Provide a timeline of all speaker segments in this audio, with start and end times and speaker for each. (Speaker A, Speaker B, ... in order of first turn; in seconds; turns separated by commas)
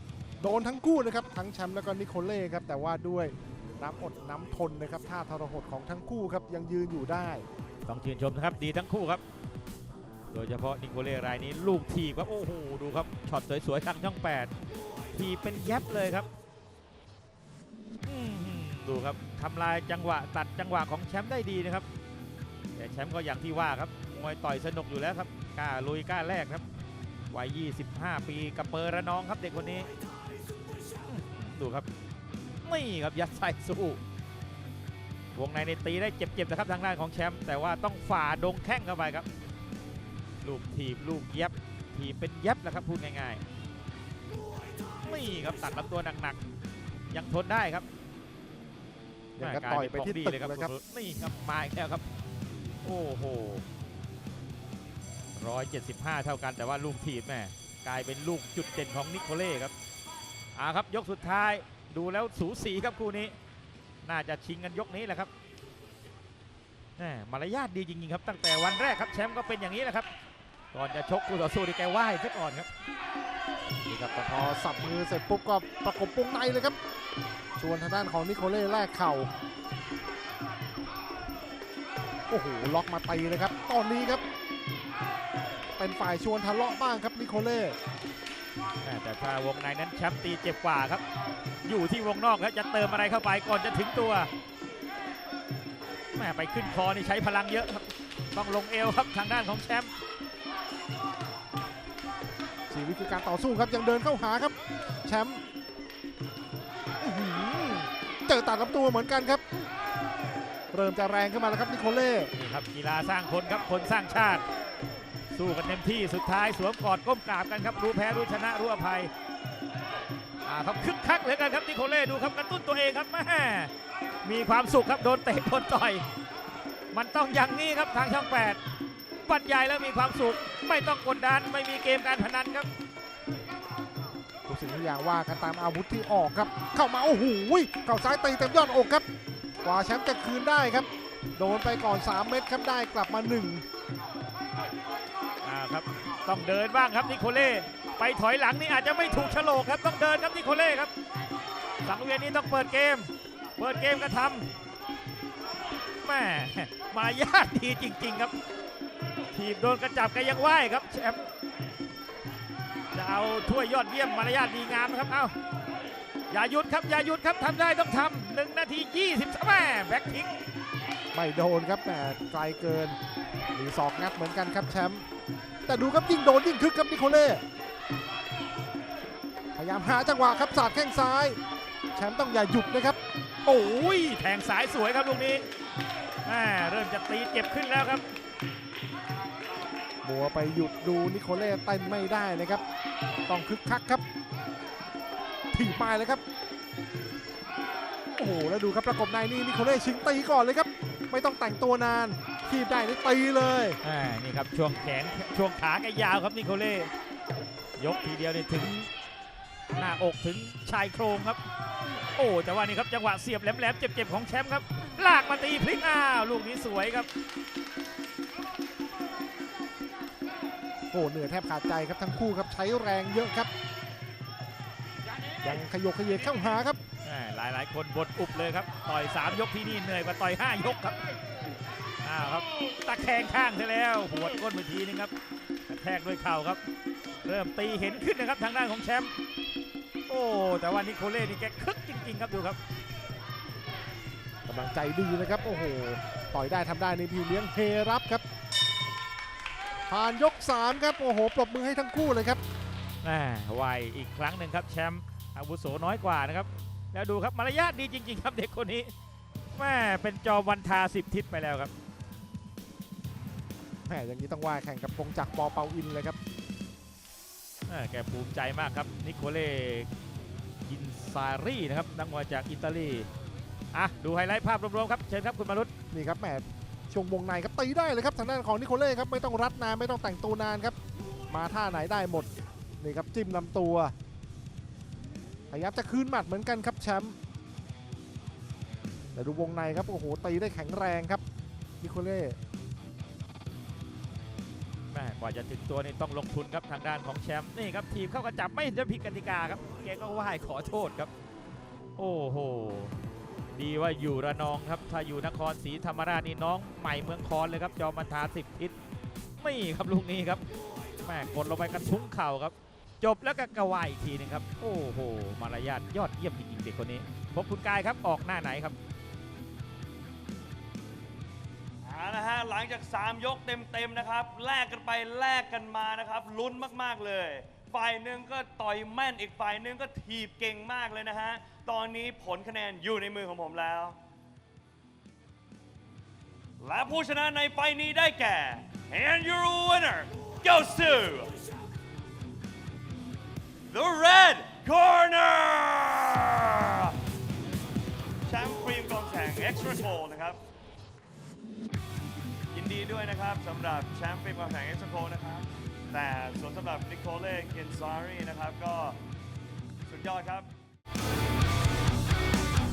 Speaker A: 0.4-7.4, Speaker B: 7.8-9.2, Speaker B: 10.3-14.5, Speaker B: 15.1-16.3, Speaker B: 18.0-21.9, Speaker B: 22.7-26.6, Speaker B: 27.3-29.9, Speaker B: 31.1-31.9, Speaker B: 32.6-34.0, Speaker B: 35.3-39.3, Speaker B: 40.4-43.4, Speaker B: 45.0-46.4, Speaker B: 47.1-47.9, Speaker A: 49.4-50.7, Speaker B: 49.4-52.1, Speaker B: 52.8-53.6, Speaker B: 55.3-59.7, Speaker B: 60.5-63.3, Speaker B: 64.0-65.3, Speaker B: 67.0-70.1, Speaker B: 70.7-72.7, Speaker A: 73.8-76.8, Speaker A: 77.6-79.3, Speaker A: 82.3-84.2, Speaker A: 85.8-87.8, Speaker B: 88.8-91.0, Speaker B: 91.6-94.3, Speaker B: 96.1-99.9, Speaker A: 102.7-105.4, Speaker A: 107.0-109.4, Speaker A: 110.7-112.3, Speaker B: 112.3-114.4, Speaker B: 115.3-119.1, Speaker B: 120.4-123.7, Speaker B: 124.2-126.0, Speaker B: 126.9-128.6, Speaker B: 129.2-132.7, Speaker A: 134.4-139.0, Speaker A: 139.6-143.6, Speaker B: 145.4-150.9, Speaker B: 151.8-154.5, Speaker B: 156.0-158.3, Speaker B: 159.3-161.2, Speaker B: 162.9-165.3, Speaker B: 166.3-170.3, Speaker A: 171.1-173.0, Speaker A: 173.5-175.0, Speaker A: 175.6-177.4, Speaker A: 179.5-181.4, Speaker A: 181.9-183.0, Speaker B: 183.4-185.4, Speaker B: 186.2-188.0, Speaker A: 190.0-192.6, Speaker A: 193.3-194.0, Speaker A: 195.5-196.2, Speaker A: 198.2-203.8, Speaker B: 203.8-206.9, Speaker B: 207.8-208.9, Speaker B: 209.8-211.4, Speaker B: 212.2-217.1, Speaker A: 220.9-223.5, Speaker A: 225.4-226.8, Speaker B: 227.0-231.0, Speaker B: 232.0-235.1, Speaker B: 235.7-236.6, Speaker B: 237.2-239.1, Speaker B: 240.1-242.6, Speaker A: 244.4-248.2, Speaker A: 249.9-252.4, Speaker B: 253.0-258.9, Speaker B: 259.5-261.7, Speaker A: 263.9-266.2, Speaker B: 267.7-269.9, Speaker B: 270.6-273.1, Speaker B: 273.7-275.7, Speaker A: 275.9-280.7, Speaker A: 281.3-283.9, Speaker A: 285.5-287.2, Speaker A: 289.1-291.2, Speaker A: 291.8-292.4, Speaker B: 294.9-301.1, Speaker B: 302.0-302.9, Speaker B: 303.5-308.8, Speaker B: 309.4-310.4, Speaker B: 311.0-318.8, Speaker C: 321.8-334.0, Speaker C: 336.6-341.4, Speaker C: 343.7-347.0, Speaker C: 348.2-350.4, Speaker C: 352.5-359.0, Speaker C: 359.9-360.5